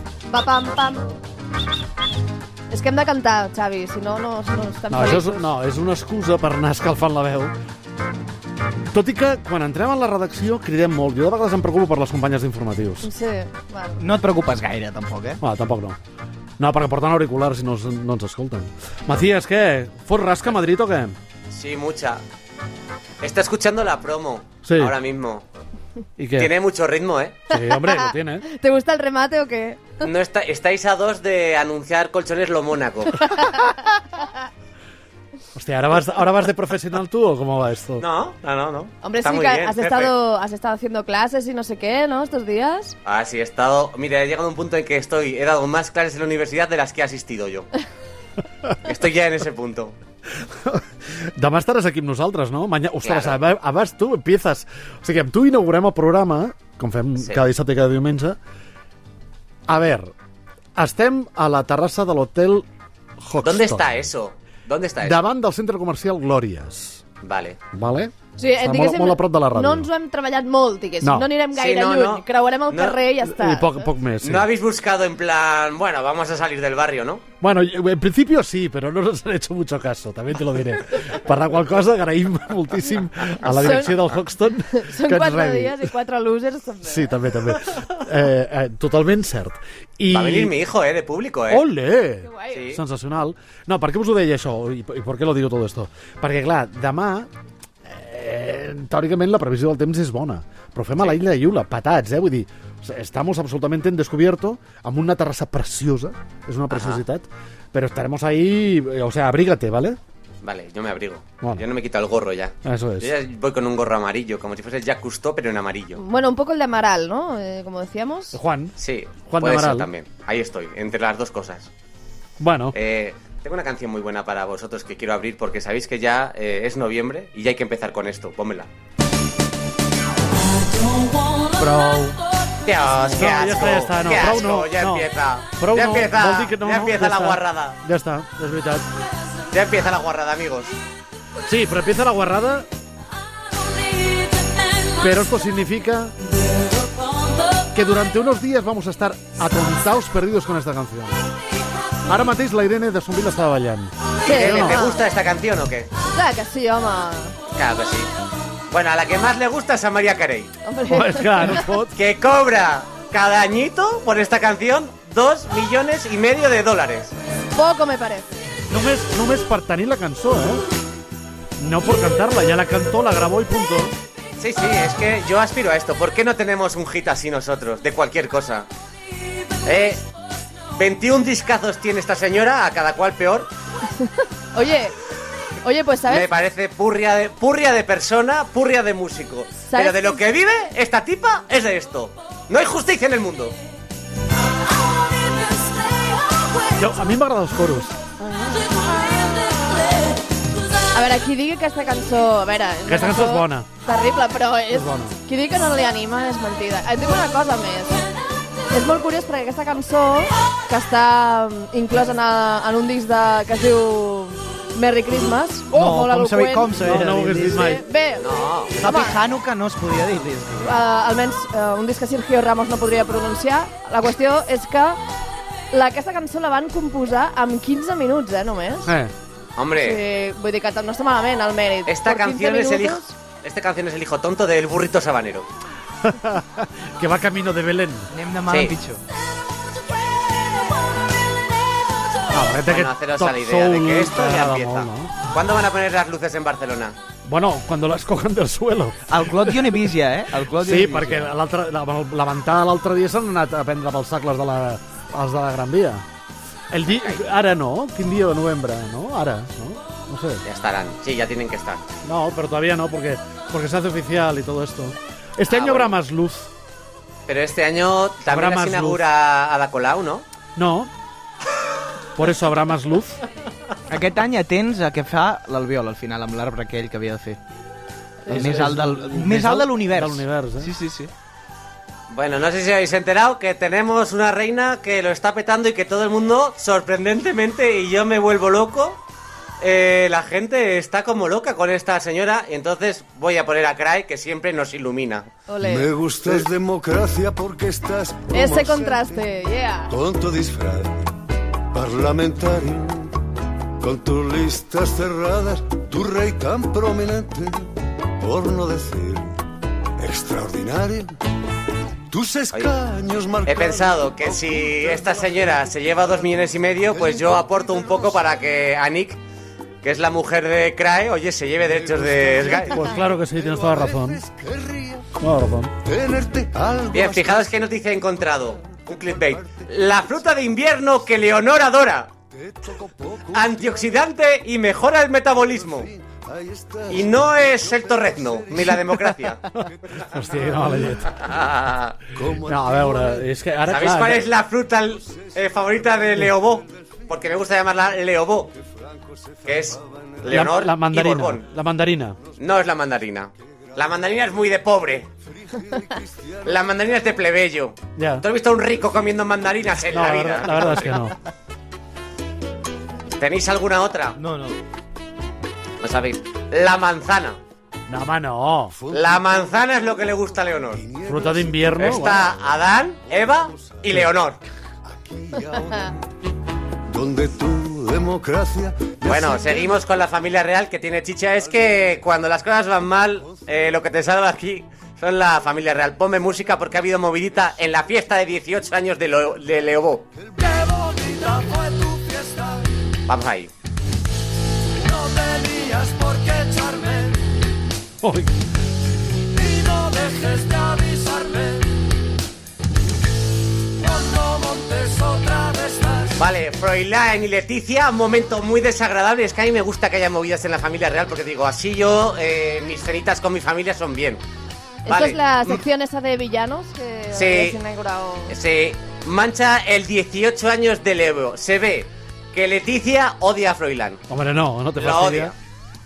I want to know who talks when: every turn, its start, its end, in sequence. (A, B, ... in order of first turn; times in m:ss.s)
0:00.3-0:01.0 A
0:02.7-0:05.5 A
0:04.9-0:07.5 B
0:08.9-0:13.1 B
0:13.0-0:14.0 A
0:14.0-0:15.4 C
0:15.4-0:16.0 B
0:16.6-0:21.2 B
0:21.5-0:22.2 D
0:23.2-0:25.4 D
0:24.6-0:24.9 B
0:26.2-0:26.5 B
0:26.4-0:27.4 D
0:27.5-0:28.4 B
0:27.5-0:29.9 A
0:30.0-0:33.3 D
0:33.2-0:33.9 A
0:35.5-0:38.0 B
0:38.0-0:40.1 D
0:39.0-0:42.9 A
0:43.0-0:47.7 D
0:48.8-0:50.0 D
0:50.4-0:50.8 B
0:51.4-0:58.4 B
0:53.0-0:53.4 D
0:59.7-1:00.1 B
1:00.8-1:02.6 B
1:03.2-1:03.8 B
1:03.4-1:05.2 D
1:05.0-1:07.0 B
1:07.2-1:07.6 D
1:07.7-1:09.9 B
1:08.4-1:13.8 A
1:11.0-1:11.3 B
1:11.5-1:13.0 D
1:13.2-1:14.5 B
1:14.2-1:17.2 D
1:17.4-1:25.8 B
1:23.4-1:27.1 A
1:26.8-1:30.5 B
1:30.1-1:31.6 D
1:31.5-1:37.3 B
1:32.2-1:32.7 A
1:32.5-1:32.8 D
1:37.8-1:50.0 B
1:46.7-1:47.0 D
1:50.4-1:56.0 D
1:52.6-1:53.1 B
1:56.0-1:58.4 A
1:58.3-1:58.7 B
1:58.8-2:01.7 D
1:59.3-1:59.9 B
2:02.4-2:02.7 B
2:02.7-2:08.7 D
2:11.5-2:12.2 B
2:12.6-2:17.8 D
2:13.1-2:18.8 B
2:19.5-2:20.7 D
2:21.4-2:22.7 B
2:24.9-2:26.1 B
2:27.7-2:31.2 B
2:32.1-2:34.8 B
2:34.2-2:35.0 A
2:34.2-2:35.9 D
2:36.1-2:37.4 A
2:37.5-2:38.1 D
2:38.7-2:40.5 D
2:40.6-2:41.6 A
2:40.9-2:41.9 B
2:41.9-2:47.1 D
2:47.5-2:48.3 A
2:48.7-2:50.6 B
2:51.6-2:53.9 B
2:54.4-2:58.7 D
2:59.6-3:00.0 D
3:00.8-3:03.5 D
3:04.0-3:05.0 A
3:05.6-3:06.3 A
3:06.1-3:13.6 D
3:09.7-3:10.2 A
3:16.7-3:18.0 B
3:18.3-3:18.9 A
3:20.9-3:28.0 A
3:22.8-3:23.7 B
3:24.7-3:25.2 B
3:28.7-3:39.2 A
3:35.7-3:37.6 C
3:36.8-3:37.8 B
3:38.2-3:38.8 D
3:38.8-3:40.8 C
3:40.6-3:45.0 A
3:45.7-3:48.9 A
3:48.8-3:49.1 B
3:49.6-3:50.0 D
3:49.8-3:53.2 A
3:51.8-3:55.5 D
3:56.0-3:58.1 B
3:58.1-3:59.0 C
3:58.5-3:58.7 D
4:02.3-4:05.1 B
4:02.7-4:07.0 D
4:07.2-4:08.9 B
4:09.1-4:11.3 C
4:10.6-4:16.0 B
4:16.7-4:20.4 B
4:20.4-4:21.8 D
4:22.0-4:26.5 B
4:25.5-4:25.9 D
4:27.3-4:30.2 D
4:28.3-4:29.0 B
4:30.6-4:30.9 B
4:32.2-4:33.2 B
4:33.9-4:37.4 C
4:38.3-4:40.7 B
4:38.3-4:41.1 C
4:42.1-4:49.0 D
4:49.6-4:55.3 D
4:55.5-4:55.9 A
4:55.6-4:59.2 E
4:58.3-5:00.0 A
4:59.9-5:01.1 E
5:01.7-5:03.2 E
5:03.8-5:09.4 E
5:10.0-5:11.2 E
5:12.1-5:16.3 E
5:13.4-5:19.2 D
5:16.9-5:18.3 E
5:19.8-5:22.8 D
5:21.7-5:25.1 E
5:22.7-5:24.2 B
5:25.2-5:25.7 B
5:25.8-5:27.5 E
5:26.9-5:32.1 D
5:32.3-5:33.9 E
5:33.3-5:35.9 D
5:35.7-5:39.2 E
5:36.9-5:39.4 D
5:40.0-5:41.1 B
5:41.1-5:42.1 D
5:42.2-5:43.2 E
5:42.4-5:44.2 B
5:43.6-5:48.6 D
5:48.6-5:50.4 E
5:49.4-5:51.4 D
5:50.3-5:52.2 B
5:52.4-5:55.1 D
5:55.4-5:56.6 E
5:56.4-6:01.1 D
5:58.0-5:58.2 B
5:59.9-6:01.1 B
6:03.2-6:04.2 D
6:04.2-6:04.6 C
6:05.8-6:07.4 D
6:07.9-6:08.8 B
6:08.9-6:09.4 E
6:08.9-6:10.8 D
6:10.8-6:12.0 E
6:11.0-6:12.2 B
6:11.7-6:14.4 D
6:13.6-6:13.9 E
6:14.9-6:16.0 E
6:16.9-6:19.7 E
6:19.0-6:30.1 D
6:30.4-6:32.6 E
6:33.1-6:33.5 D
6:35.2-6:37.1 E
6:38.0-6:38.3 B
6:39.8-6:41.6 E
6:43.9-6:45.9 E
6:46.1-6:54.2 D
6:54.8-6:58.3 A
6:54.9-6:55.6 D
6:57.1-6:57.6 D
6:58.3-7:04.0 D
7:04.1-7:05.3 B
7:04.8-7:05.3 D